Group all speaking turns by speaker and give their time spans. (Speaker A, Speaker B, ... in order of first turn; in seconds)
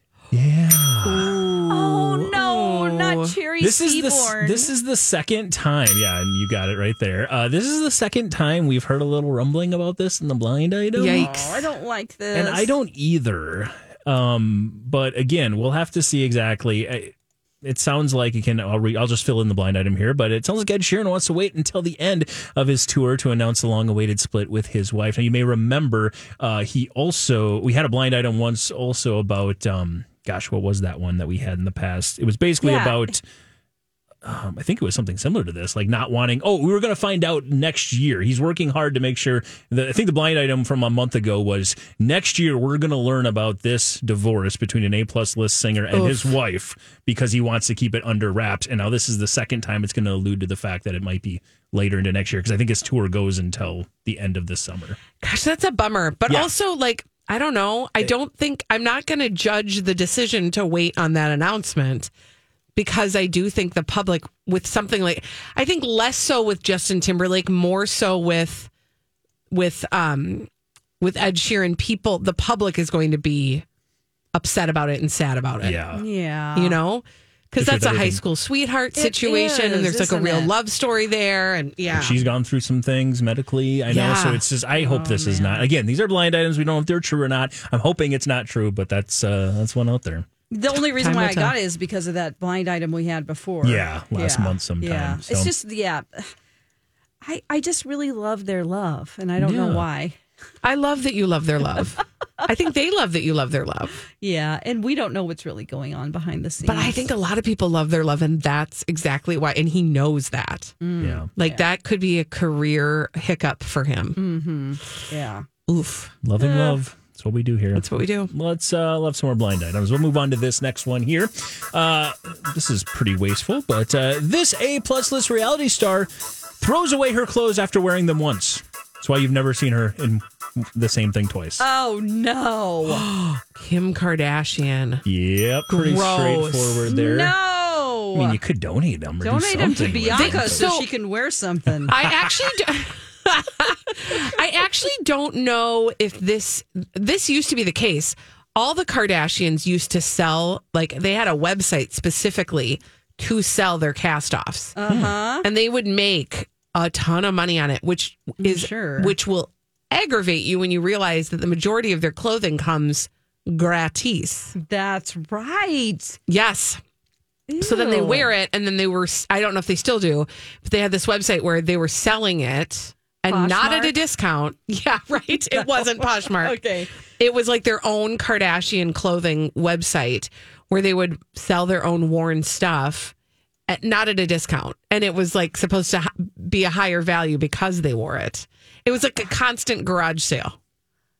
Speaker A: 0.3-1.4, 3.6-11.3, 12.3-33.2, 34.2-55.0, 75.6-76.0, 77.6-78.2, 81.9-90.2, 93.6-95.5, 99.4-99.8, 111.0-111.3, 116.2-131.6, 135.0-137.3, 138.1-140.7, 154.9-155.1
Speaker B: 1.0-3.4, 11.0-11.6, 45.9-46.3, 55.2-62.1, 62.8-68.7, 69.5-70.5, 71.0-73.6, 74.3-75.8, 76.5-82.2, 83.9-84.4, 91.0-91.5, 100.6-104.0, 106.7-110.8, 111.4-114.2, 115.7-116.1, 117.7-118.3, 132.8-135.0, 135.7-136.9, 140.1-140.9, 141.9-154.8, 155.4-164.5, 166.3-166.8, 167.6-176.6, 177.2-183.1, 183.7-190.6
Speaker C: 1.7-4.7, 11.1-12.7, 32.6-33.1, 75.9-76.8, 79.0-80.5, 84.7-85.7, 90.5-96.3, 97.2-100.2, 104.2-107.0, 110.8-111.6, 114.2-115.5, 116.4-116.8, 131.6-133.0, 136.9-138.4, 139.2-141.9, 154.8-155.4, 158.4-159.1, 164.5-166.2, 167.5-168.3, 173.3-173.9, 175.5-176.9